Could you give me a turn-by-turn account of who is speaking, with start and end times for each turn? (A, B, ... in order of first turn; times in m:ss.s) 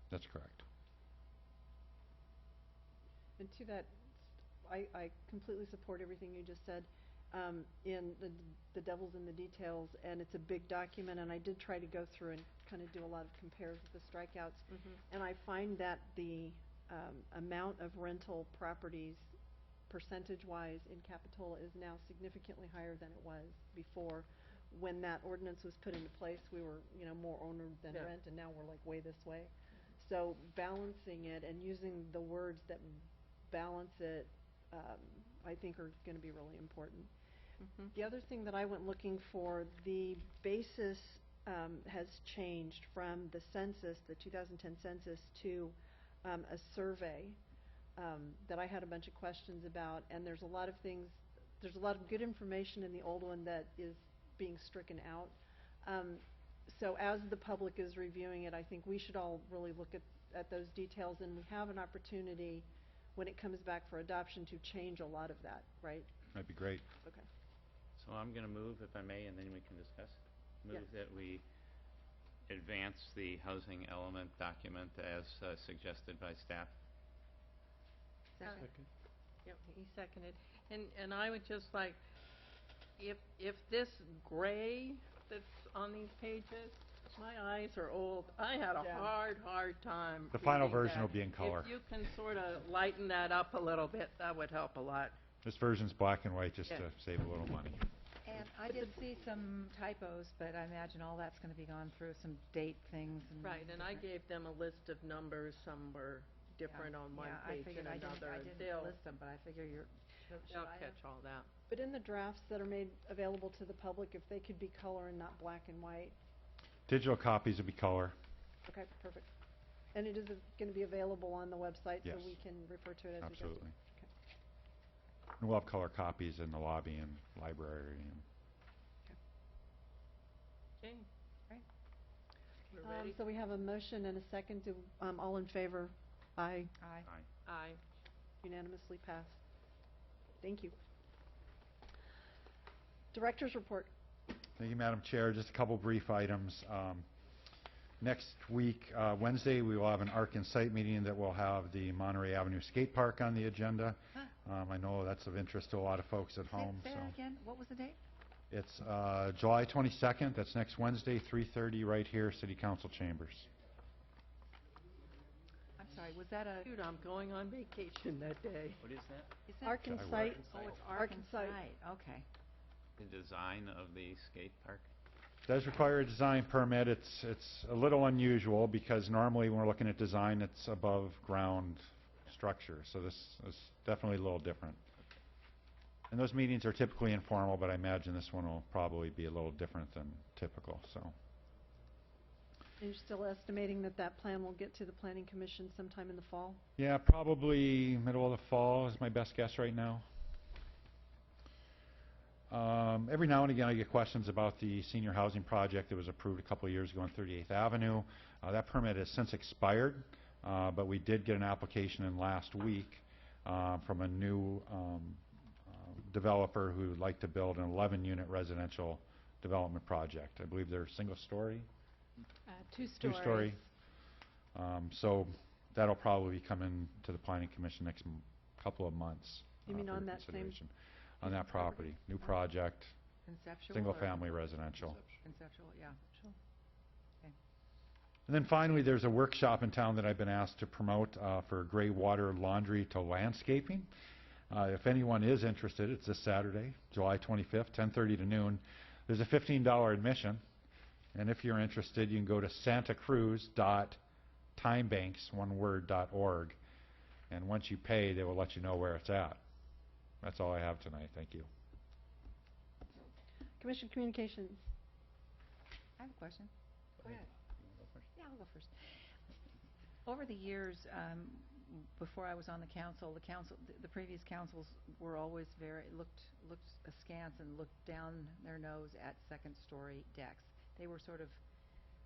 0:00.1-0:00.6 A
0:03.4-0:04.0 B
0:04.6-0:19.3 B
0:19.9-0:37.1 B
0:37.6-0:37.9 C
0:37.9-0:47.4 B
0:48.0-1:06.1 B
1:06.3-1:06.8 A
1:07.0-1:07.3 B
1:08.0-1:11.4 D
1:12.5-1:16.7 D
1:18.4-1:18.7 E
1:19.4-1:22.0 C
1:23.0-1:35.2 C
1:30.3-1:31.7 A
1:35.4-1:37.8 A
1:38.2-1:44.0 E
1:43.4-1:49.0 C
1:46.6-1:51.0 E
1:50.3-1:51.5 C
1:51.7-1:56.2 B
1:56.9-1:58.2 A
1:58.6-1:59.3 B
1:59.9-2:04.1 B
2:02.0-2:02.4 A
2:03.2-2:03.7 A
2:05.4-2:08.2 A
2:10.8-2:11.1 C
2:12.7-2:13.2 C
2:12.8-2:16.7 B
2:16.8-2:17.1 E
2:17.4-2:17.8 C
2:18.4-2:19.4 B
2:20.4-2:20.7 B
2:23.1-2:23.9 B
2:24.6-2:27.0 A
2:28.0-2:37.1 A
2:36.5-2:38.0 E
2:38.5-2:43.5 A
2:45.8-2:46.7 E
2:46.6-2:48.8 C
2:48.8-2:49.3 D
2:49.5-2:52.2 E
2:49.6-2:51.6 B
2:49.8-2:50.4 A
2:53.0-2:54.9 D
2:55.5-3:04.8 A
3:06.1-3:11.1 A
3:12.8-3:16.6 B
3:16.8-3:20.0 A
3:22.5-3:41.7 A
3:42.9-3:43.6 A
3:44.5-3:52.9 A
3:49.6-3:50.6 B
3:51.2-3:51.9 B
3:53.2-3:56.4 E
3:53.7-3:55.0 A
3:58.3-4:03.9 A
4:04.5-4:10.4 A
4:11.1-4:14.0 A
4:14.6-4:16.6 A
4:17.3-4:19.4 A
4:20.2-4:21.5 A
4:23.6-4:24.6 B
4:26.0-4:27.3 E
4:27.0-4:28.0 D
4:28.1-4:28.7 E
4:30.0-4:41.4 E